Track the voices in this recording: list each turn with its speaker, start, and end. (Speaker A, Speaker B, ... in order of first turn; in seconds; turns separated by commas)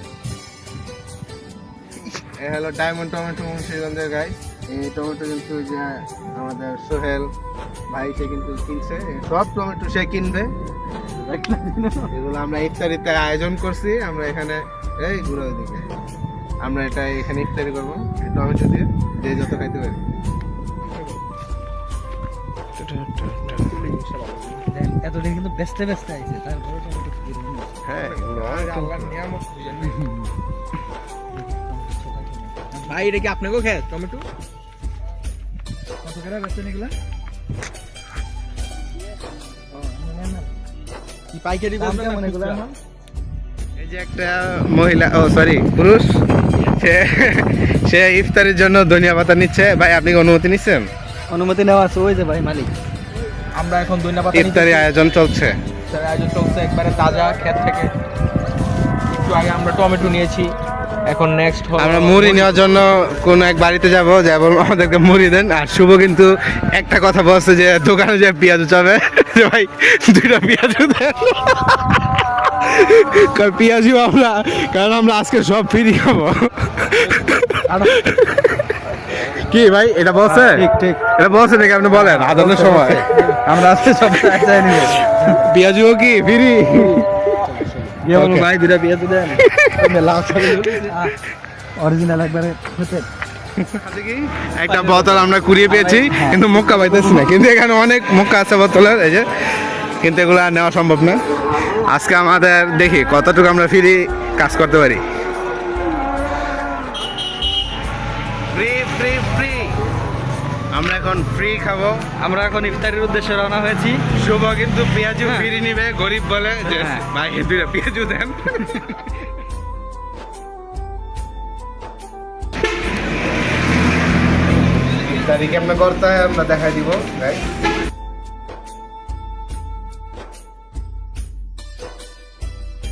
Speaker A: 2.4-7.3, Speaker A: 7.9-10.5, Speaker B: 11.2-12.1, Speaker A: 12.1-15.8, Speaker A: 16.6-20.0, Speaker C: 20.8-21.2, Speaker A: 22.8-23.8, Speaker C: 23.6-24.6, Speaker B: 24.6-27.9, Speaker A: 27.8-29.2, Speaker C: 27.9-30.0, Speaker B: 29.8-30.3, Speaker B: 31.4-33.3, Speaker C: 32.9-34.2, Speaker B: 36.0-36.9, Speaker B: 39.7-40.5, Speaker C: 41.3-42.7, Speaker B: 41.8-42.7, Speaker A: 43.8-46.1, Speaker A: 46.6-50.9, Speaker B: 51.3-52.7, Speaker C: 53.5-54.9, Speaker A: 54.3-55.5, Speaker C: 55.9-57.9, Speaker C: 59.2-60.5, Speaker C: 61.0-62.8, Speaker A: 61.8-87.0, Speaker C: 77.0-77.4, Speaker B: 77.6-78.0, Speaker B: 80.2-81.1, Speaker B: 81.9-85.5, Speaker C: 86.7-88.0, Speaker B: 88.0-89.4, Speaker A: 88.1-88.5, Speaker A: 89.4-90.8, Speaker C: 89.8-90.9, Speaker B: 90.9-91.1, Speaker B: 91.8-93.1, Speaker A: 93.6-101.2, Speaker C: 94.7-96.2, Speaker B: 96.1-97.2, Speaker A: 101.8-105.0, Speaker A: 108.5-109.8, Speaker A: 110.7-112.0, Speaker B: 112.2-114.0, Speaker A: 114.2-119.2, Speaker B: 115.2-115.5, Speaker B: 116.6-117.0, Speaker A: 124.9-127.4